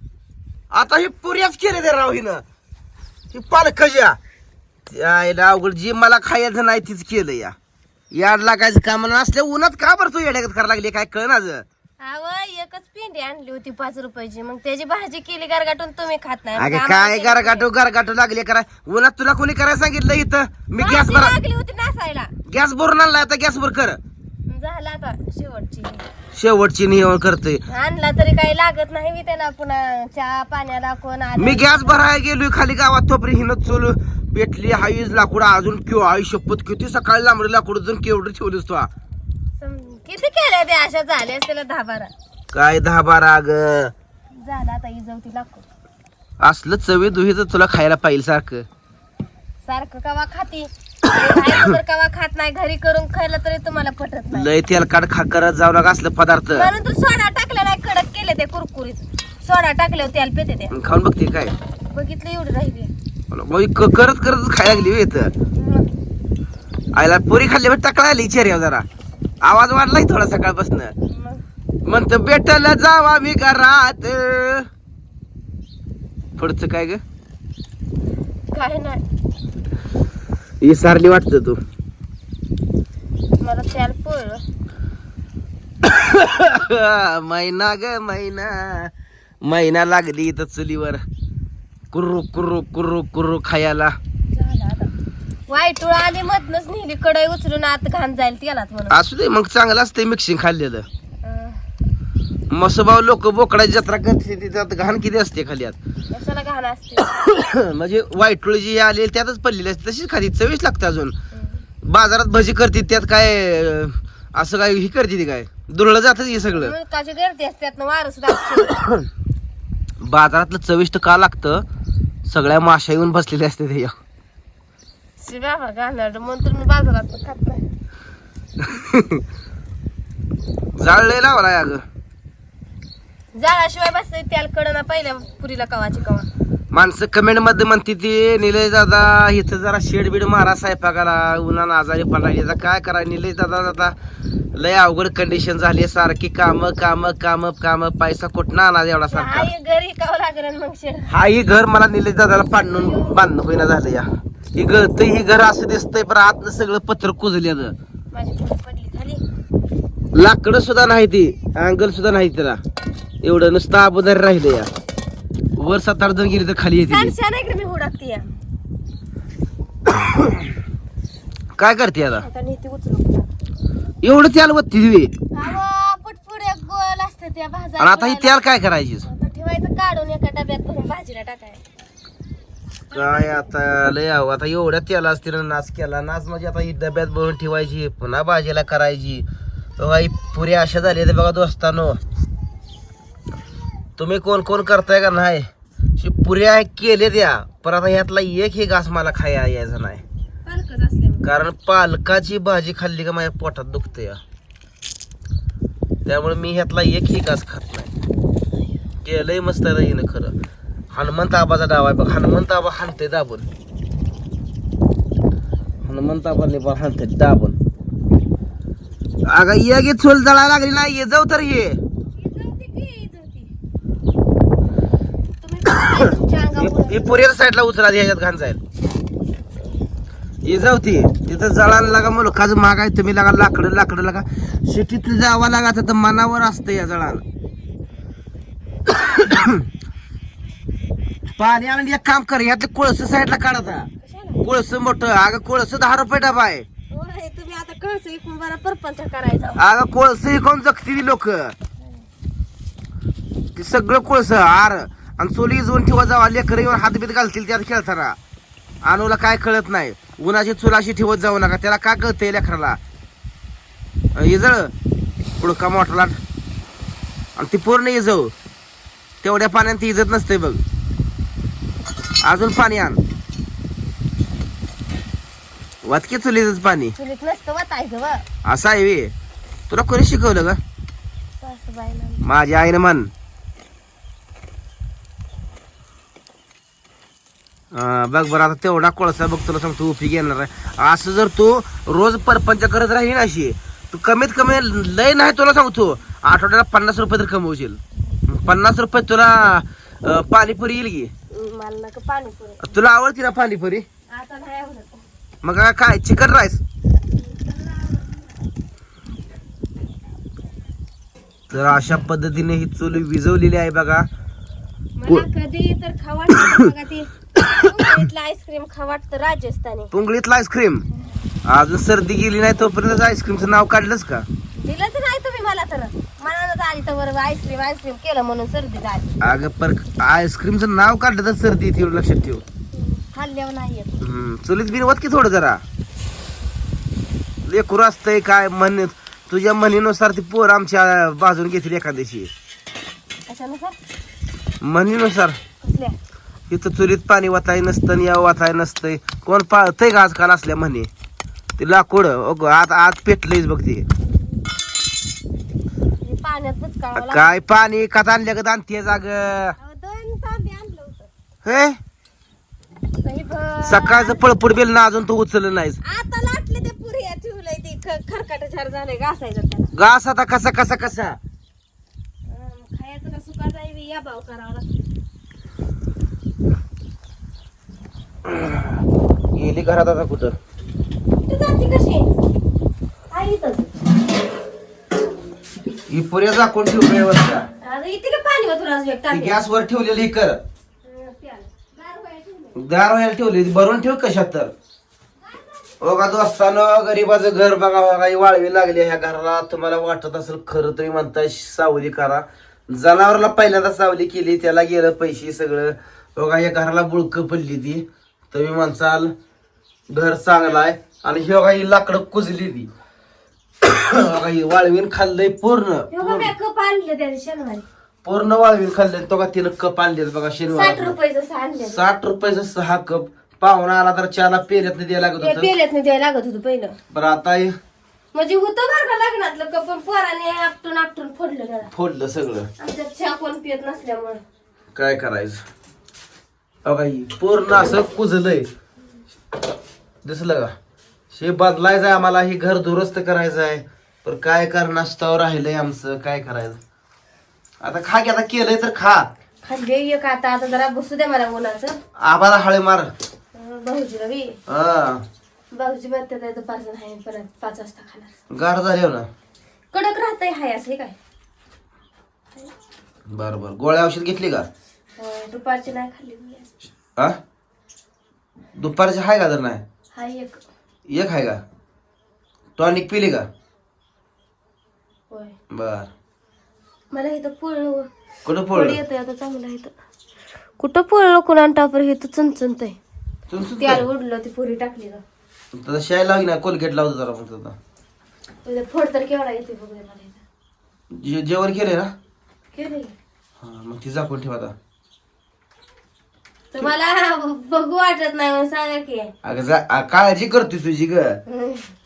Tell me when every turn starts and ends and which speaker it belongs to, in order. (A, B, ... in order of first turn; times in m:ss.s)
0:00.7-0:02.4 A
0:03.3-0:04.2 A
0:04.9-0:07.5 A
0:08.1-0:11.6 A
0:12.0-0:17.7 B
0:16.6-0:21.4 A
0:20.8-0:22.3 B
0:22.5-0:24.0 A
0:24.5-0:26.0 B
0:26.3-0:27.6 A
0:27.7-0:32.0 B
0:31.4-0:38.9 A
0:39.6-0:42.1 B
0:42.5-0:43.9 A
0:44.3-0:45.6 B
0:46.4-0:48.6 A
0:49.6-0:54.5 B
0:54.3-0:56.7 A
0:56.5-1:00.7 B
1:00.7-1:01.5 A
1:01.9-1:02.9 B
1:03.3-1:05.3 A
1:05.5-1:05.9 B
1:06.9-1:08.8 A
1:09.4-1:10.9 A
1:11.1-1:11.4 B
1:11.8-1:14.7 A
1:16.4-1:17.0 A
1:18.5-1:19.0 B
1:20.6-1:21.6 A
1:23.4-1:24.4 B
1:25.8-1:31.0 A
1:31.9-1:34.0 A
1:34.3-1:34.9 B
1:35.5-1:39.0 B
1:38.9-1:40.9 A
1:41.2-1:41.6 B
1:42.5-1:45.8 A
1:46.1-1:47.1 B
1:47.1-1:51.1 A
1:51.3-1:51.6 B
1:51.8-1:56.7 A
1:56.5-1:58.9 B
2:00.0-2:01.6 A
2:02.2-2:04.0 A
2:05.2-2:07.6 B
2:08.6-2:09.2 A
2:10.8-2:11.8 A
2:13.3-2:16.3 B
2:16.7-2:23.9 A
2:24.5-2:29.5 A
2:29.1-2:31.1 B
2:31.1-2:37.7 A
2:32.7-2:33.2 B
2:38.1-2:39.2 B
2:40.1-2:42.6 A
2:43.2-2:44.7 A
2:45.6-2:47.1 A
2:46.8-2:48.3 B
2:49.9-2:50.4 A
2:51.6-2:52.2 A
2:52.2-2:53.3 B
2:54.0-2:55.1 A
2:55.3-2:58.4 B
2:57.8-2:59.1 A
2:59.0-3:01.6 B
3:02.9-3:03.5 B
3:02.9-3:09.2 A
3:09.8-3:12.0 A
3:14.0-3:20.0 A
3:20.4-3:21.3 B
3:21.2-3:24.2 A
3:26.0-3:27.9 A
3:29.0-3:30.3 A
3:30.9-3:33.4 A
3:35.8-3:37.6 A
3:39.2-3:41.8 A
3:42.2-3:43.5 B
3:45.4-3:47.2 B
3:45.7-3:48.6 A
3:50.4-3:57.2 A
3:58.8-3:59.6 A
4:01.4-4:03.9 A
4:04.0-4:04.4 B
4:04.4-4:06.6 A
4:06.9-4:09.6 B
4:09.6-4:11.5 A
4:13.6-4:18.2 A
4:18.8-4:22.8 A
4:24.1-4:24.7 A
4:25.4-4:26.2 A
4:27.4-4:28.3 A
4:29.2-4:30.6 A
4:32.2-4:33.0 A
4:35.8-4:36.9 A
4:37.0-4:38.2 B
4:38.4-4:39.1 A
4:39.7-4:40.6 A
4:41.4-4:42.2 B
4:42.2-4:43.1 A
4:47.7-5:01.1 A
5:01.3-5:02.8 B
5:02.6-5:03.8 A
5:04.1-5:05.1 B
5:05.4-5:06.6 A
5:07.2-5:08.3 B
5:11.5-5:14.1 A
5:15.0-5:19.9 B
5:19.9-5:20.8 A
5:21.4-5:24.3 A
5:24.6-5:29.3 B
5:29.2-5:32.4 A
5:32.7-5:33.9 B
5:34.0-5:35.6 A
5:37.4-5:42.3 A
5:43.3-5:43.8 B
5:44.6-5:45.4 A
5:45.6-5:46.0 B
5:46.5-5:50.9 A
5:51.6-5:53.9 A
5:56.0-5:57.4 B
5:57.0-5:59.6 A
5:59.6-6:01.1 B
6:01.4-6:01.8 A
6:03.0-6:04.2 B
6:03.6-6:05.8 A
6:05.8-6:09.7 B
6:09.7-6:11.2 A
6:12.3-6:14.8 B
6:18.2-6:18.8 A
6:19.3-6:20.4 A
6:21.1-6:22.2 B
6:23.1-6:23.9 B
6:25.9-6:27.5 A
6:27.6-6:29.4 B
6:29.1-6:30.4 A
6:30.8-6:32.6 B
6:32.5-6:34.5 A
6:35.3-6:35.7 B
6:35.8-6:49.1 A
6:49.9-6:52.7 A
6:53.6-6:56.3 A
6:55.9-6:57.6 B
6:58.0-7:00.9 A
7:00.5-7:01.8 B
7:01.6-7:05.5 A
7:05.2-7:06.8 B
7:06.9-7:07.6 A
7:08.1-7:11.7 B
7:11.7-7:12.5 A
7:12.6-7:14.2 B
7:14.7-7:15.4 A
7:16.6-7:18.5 A
7:20.0-7:20.5 A
7:21.1-7:26.6 A
7:27.6-7:29.1 A
7:29.4-7:31.8 B
7:32.0-7:32.9 A
7:33.3-7:34.4 B
7:34.5-7:35.0 A
7:35.5-7:38.1 B
7:38.3-7:39.1 A
7:39.7-7:41.0 B
7:43.1-7:44.5 A
7:45.0-7:46.5 B
7:48.6-7:49.6 A
7:49.9-7:50.4 B
7:50.9-7:51.4 A
7:52.6-7:53.3 A
7:55.5-7:55.9 A
7:56.9-7:57.9 B
7:58.2-7:58.8 A
7:58.5-7:59.7 B
8:00.6-8:02.8 B
8:03.3-8:03.8 A
8:03.6-8:05.0 B
8:05.5-8:07.5 A
8:08.4-8:10.2 B
8:10.9-8:11.9 A
8:12.5-8:12.9 B
8:13.4-8:14.5 A
8:16.5-8:19.1 B
8:19.2-8:21.2 A
8:21.3-8:21.7 B